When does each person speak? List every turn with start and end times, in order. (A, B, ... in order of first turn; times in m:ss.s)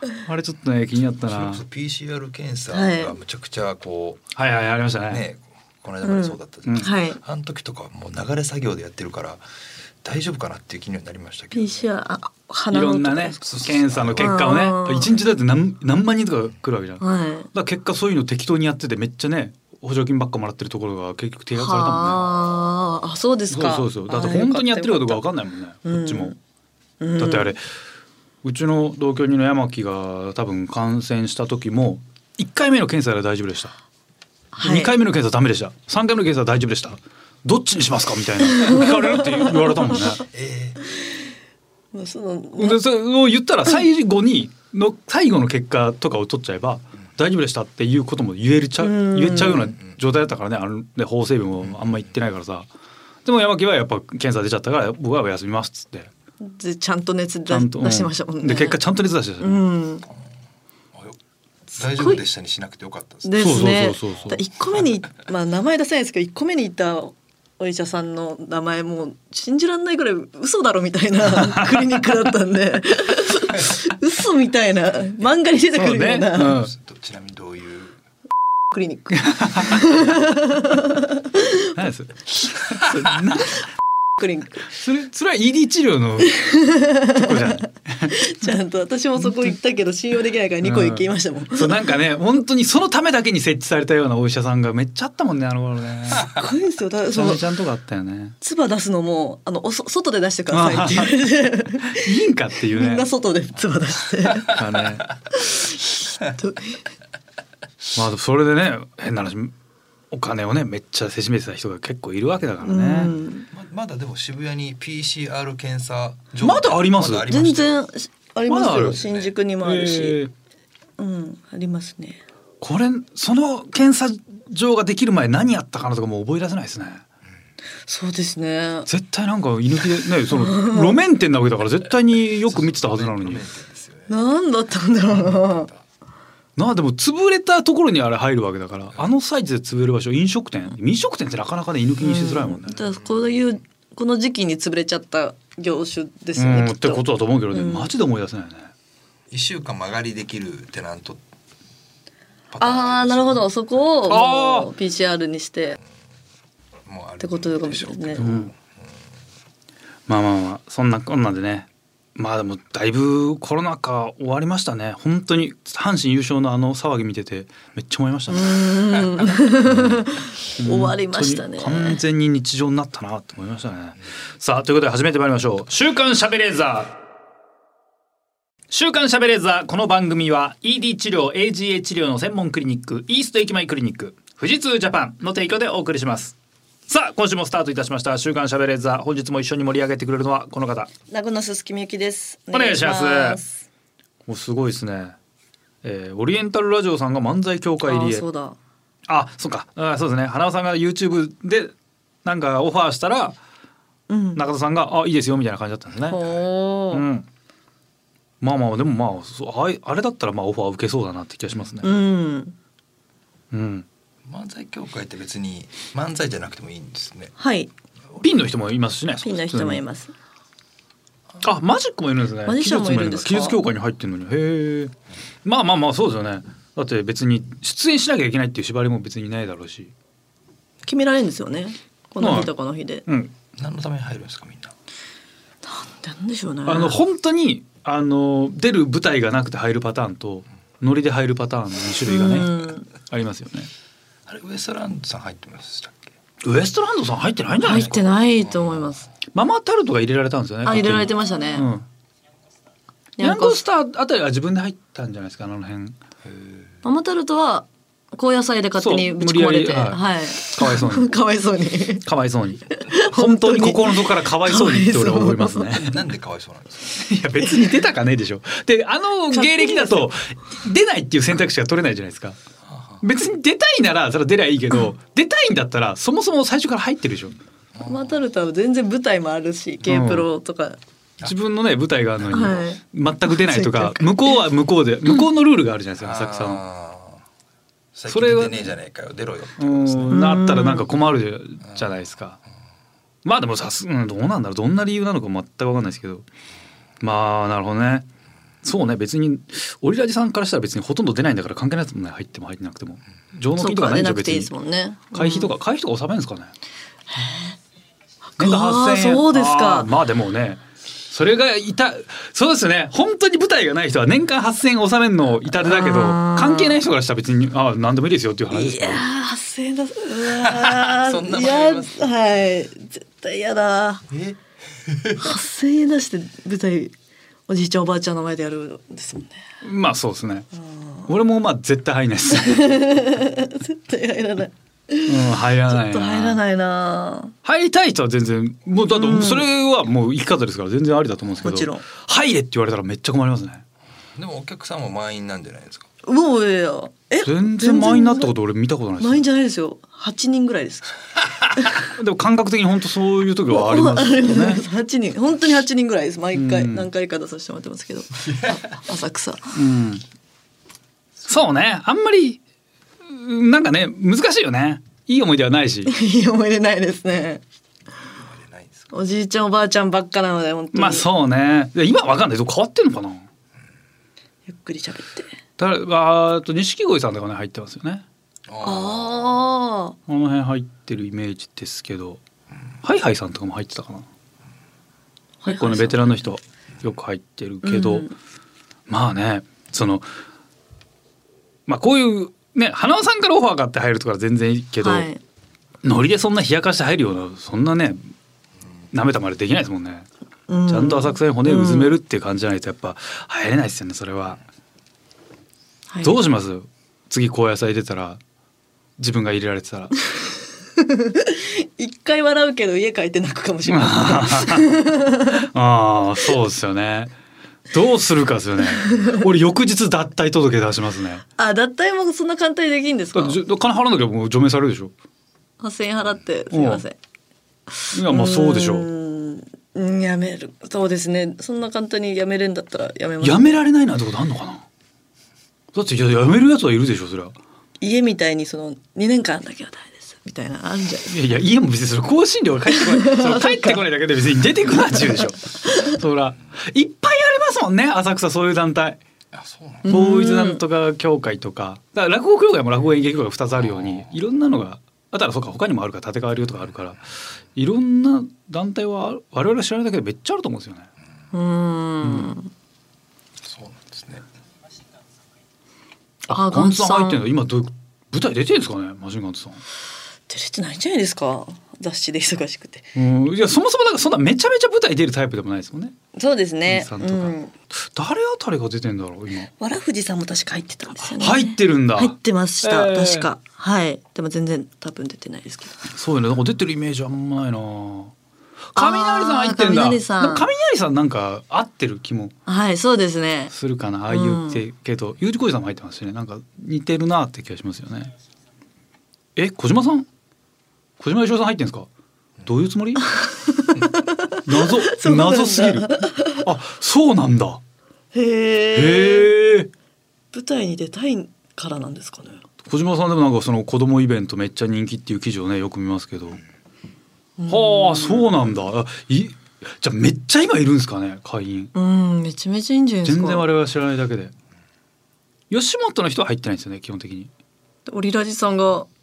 0:00.2-0:01.6 A
0:01.2-0:04.3 B
0:02.7-0:03.2 C
0:04.4-0:05.2 A
0:05.1-0:09.4 B
0:06.0-0:07.2 C
0:10.0-0:11.9 B
0:11.6-0:13.4 C
0:12.7-0:22.2 A
0:13.4-0:14.4 B
0:14.2-0:15.1 C
0:17.0-0:17.5 C
0:21.6-0:25.2 C
0:23.5-0:26.3 A
0:25.8-0:26.4 C
0:27.0-0:27.6 C
0:27.2-0:27.6 A
0:28.4-0:33.8 A
0:34.5-0:34.9 C
0:34.6-0:40.2 A
0:38.6-0:39.2 C
0:40.2-0:40.8 B
0:41.9-0:42.8 C
0:42.6-0:52.7 A
0:48.8-0:49.8 C
0:51.6-0:51.9 B
0:53.2-0:56.1 A
0:56.4-0:58.8 C
0:57.5-0:59.6 A
0:59.4-1:00.1 C
1:01.8-1:02.2 C
1:01.8-1:03.5 B
1:03.2-1:16.6 C
1:03.4-1:04.4 A
1:11.2-1:12.2 A
1:15.7-1:16.7 A
1:16.4-1:18.0 B
1:18.7-1:21.7 C
1:19.1-1:19.9 A
1:21.6-1:23.7 A
1:24.2-1:24.6 C
1:24.7-1:26.5 A
1:26.3-1:27.6 C
1:27.0-1:28.6 A
1:28.1-1:31.8 C
1:29.2-1:29.6 A
1:30.6-1:36.4 A
1:36.2-1:37.4 C
1:37.1-1:38.4 A
1:38.4-1:42.2 C
1:40.5-1:43.1 A
1:42.7-1:44.6 C
1:44.5-1:45.1 A
1:45.3-1:46.8 C
1:47.9-1:49.5 A
1:50.1-1:53.1 A
1:52.6-1:53.5 C
1:53.5-1:57.8 B
1:56.4-1:57.3 A
1:57.3-2:00.2 C
1:58.5-1:59.0 A
1:59.0-1:59.3 B
1:59.6-2:00.3 A
2:01.0-2:02.2 C
2:02.6-2:07.0 A
2:07.9-2:08.9 C
2:08.9-2:13.4 A
2:10.3-2:11.0 C
2:12.5-2:14.2 B
2:14.1-2:15.7 C
2:15.3-2:15.8 B
2:16.6-2:22.8 A
2:22.0-2:27.9 C
2:26.4-2:28.7 A
2:29.3-2:31.2 B
2:32.5-2:33.4 B
2:32.6-2:35.8 C
2:34.1-2:34.7 A
2:36.9-2:38.7 B
2:37.2-2:38.2 C
2:38.2-2:38.5 A
2:40.1-2:48.8 A
2:48.3-2:52.0 C
2:49.7-2:50.0 A
2:50.6-2:57.0 A
2:58.7-3:06.4 A
3:06.9-3:10.9 A
3:11.1-3:13.6 C
3:12.5-3:13.4 A
3:14.3-3:15.2 A
3:15.8-3:18.2 A
3:17.9-3:18.6 C
3:19.1-3:21.7 A
3:22.2-3:23.4 A
3:24.1-3:24.4 C
3:24.4-3:26.2 A
3:26.1-3:27.0 C
3:26.9-3:27.2 A
3:28.4-3:31.9 A
3:31.8-3:32.6 C
3:33.5-3:33.9 A
3:34.2-3:37.3 B
3:37.4-3:37.7 C
3:38.2-3:39.8 A
3:39.2-3:40.1 C
3:41.4-3:44.9 A
3:42.5-3:43.6 C
3:45.4-3:49.9 A
3:50.9-3:53.0 C
3:52.2-3:52.5 A
3:53.1-3:53.3 A
3:53.6-3:54.7 B
3:55.6-3:57.0 C
3:56.7-4:03.7 A
4:02.1-4:02.9 C
4:04.3-4:06.2 B
4:06.4-4:08.1 A
4:07.6-4:09.1 C
4:08.4-4:09.0 B
4:09.3-4:11.9 A
4:10.6-4:11.7 C
4:13.2-4:13.6 C
4:13.2-4:16.0 A
4:16.2-4:16.7 B
4:16.8-4:22.1 C
4:18.8-4:21.2 A
4:22.0-4:26.0 A
4:22.8-4:25.8 C
4:25.8-4:27.0 B
4:27.0-4:32.4 A
4:27.4-4:27.8 C
4:29.3-4:30.1 C
4:32.6-4:33.0 B
4:33.0-4:37.4 A
4:37.8-4:38.2 B
4:37.9-4:40.8 C
4:39.8-4:40.3 A
4:41.2-4:46.6 A
4:42.3-4:44.4 C
4:46.0-4:47.2 B
4:47.9-4:50.1 B
4:48.1-4:48.7 A
4:49.6-4:52.4 A
4:50.1-4:50.9 C
4:53.2-4:56.2 A
4:57.0-4:58.1 A
4:58.6-5:04.5 A
5:03.6-5:05.5 C
5:05.1-5:06.5 A
5:07.1-5:07.6 C
5:08.4-5:09.9 C
5:08.4-5:19.0 A
5:15.6-5:16.8 C
5:18.5-5:24.0 C
5:20.3-5:22.0 B
5:24.1-5:25.2 B
5:25.2-5:26.9 C
5:27.5-5:29.4 C
5:29.6-5:30.5 A
5:30.6-5:31.1 C
5:31.1-5:32.9 A
5:32.3-5:37.3 C
5:35.1-5:36.4 A
5:37.4-5:43.6 A
5:38.9-5:39.5 C
5:41.4-5:41.8 C
5:44.2-5:45.9 B
5:46.0-5:48.3 C
5:47.2-5:49.2 A
5:49.0-5:51.0 C
5:51.8-5:54.6 A
5:53.5-5:59.6 C
5:56.3-5:56.9 A
5:59.6-6:00.0 A
6:01.2-6:02.4 A
6:03.1-6:05.9 A
6:05.9-6:07.4 C
6:08.2-6:08.9 B
6:08.9-6:11.1 C
6:10.7-6:13.3 A
6:14.5-6:15.3 C
6:15.6-6:18.0 A
6:18.5-6:19.3 B
6:18.6-6:20.0 C
6:20.1-6:22.2 A
6:22.8-6:24.1 A
6:25.4-6:26.1 C
6:25.5-6:28.1 A
6:27.6-6:28.2 C
6:28.9-6:30.1 A
6:31.7-6:35.1 A
6:34.8-6:35.2 C
6:35.8-6:38.1 A
6:38.9-6:40.1 A
6:40.5-6:42.0 C
6:40.7-6:44.4 A
6:45.9-6:46.2 C
6:46.0-6:48.2 A
6:49.0-6:49.9 A
6:50.8-6:55.5 C
6:53.7-6:54.7 A
6:55.3-6:57.1 A
6:57.7-7:01.2 A
6:58.8-6:59.2 C
7:01.4-7:03.4 C
7:03.1-7:04.9 A
7:05.6-7:07.0 C
7:06.5-7:06.8 A
7:07.9-7:08.9 A
7:07.9-7:13.6 C
7:13.2-7:14.6 A
7:15.7-7:17.4 A
7:17.8-7:21.2 C
7:21.1-7:29.0 A
7:22.7-7:23.8 C
7:25.7-7:25.9 C
7:29.3-7:29.9 B
7:29.8-7:30.6 C
7:29.9-7:37.0 A
7:37.6-7:40.9 A
7:41.3-7:42.5 C
7:42.0-7:42.3 A
7:43.4-7:44.3 B
7:46.3-7:49.6 A
7:46.3-7:47.2 C
7:50.3-7:52.9 C
7:53.0-7:56.0 A
7:56.2-7:57.5 C
7:56.7-7:59.5 A
7:59.6-8:05.8 C
8:01.0-8:03.3 A
8:05.9-8:08.1 A
8:08.8-8:12.3 A
8:08.8-8:10.5 C
8:12.5-8:13.5 C
8:13.5-8:18.1 A
8:14.1-8:14.6 C
8:19.4-8:20.1 A
8:21.0-8:21.9 A
8:22.4-8:23.0 A
8:23.0-8:26.4 C
8:24.4-8:27.6 A
8:28.1-8:29.3 C
8:28.7-8:29.7 A
8:30.3-8:32.4 C
8:32.6-8:36.4 A
8:37.4-8:38.3 C
8:37.5-8:41.7 A
8:41.7-8:43.5 C
8:43.0-8:44.3 A
8:45.5-8:47.3 A
8:47.9-8:48.9 C